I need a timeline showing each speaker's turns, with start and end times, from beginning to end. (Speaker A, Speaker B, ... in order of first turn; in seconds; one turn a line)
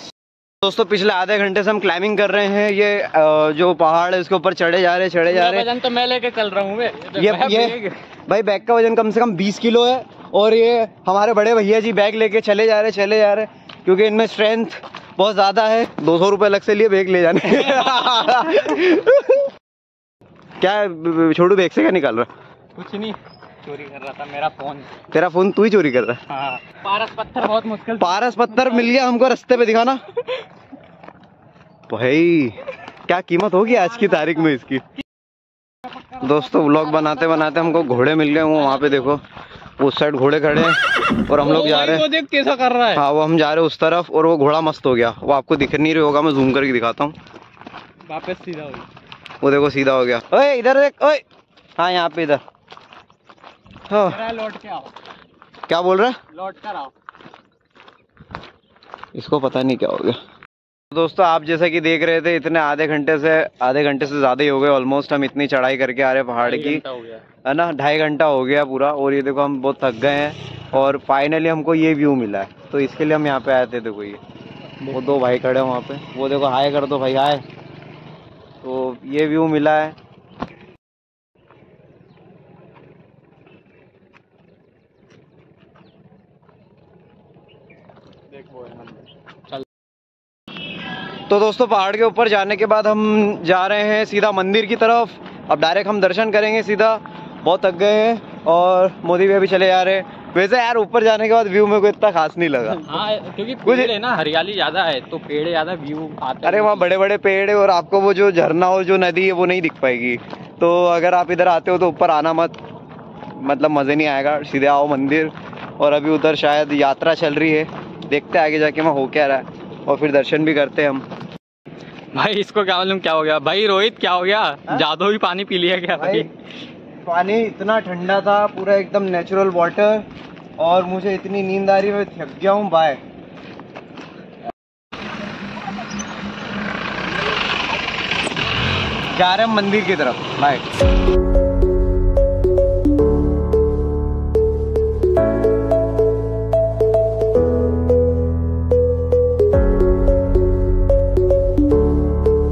Speaker A: 0.6-5.7
Speaker B: 5.3-8.0
Speaker A: 7.2-19.5
Speaker A: 20.6-22.3
Speaker B: 22.8-24.9
Speaker A: 25.1-26.2
Speaker B: 26.3-28.6
Speaker A: 27.9-30.0
Speaker A: 31.9-34.8
Speaker A: 36.2-39.2
Speaker A: 39.8-42.1
Speaker B: 41.4-43.0
Speaker A: 42.9-47.1
Speaker B: 48.1-48.9
Speaker A: 49.4-51.2
Speaker A: 51.8-52.4
Speaker A: 53.9-54.3
Speaker B: 54.1-54.9
Speaker A: 55.7-56.2
Speaker B: 56.3-56.9
Speaker A: 59.1-60.2
Speaker A: 60.9-66.9
Speaker B: 66.4-67.2
Speaker A: 67.4-74.2
Speaker A: 74.8-77.5
Speaker A: 78.6-80.0
Speaker B: 88.5-88.8
Speaker A: 91.3-102.9
Speaker B: 102.9-106.9
Speaker A: 103.7-103.9
Speaker A: 106.4-112.6
Speaker A: 113.4-121.0
Speaker B: 122.1-126.3
Speaker A: 126.0-126.3
Speaker A: 127.0-130.1
Speaker A: 130.6-133.0
Speaker A: 139.1-140.7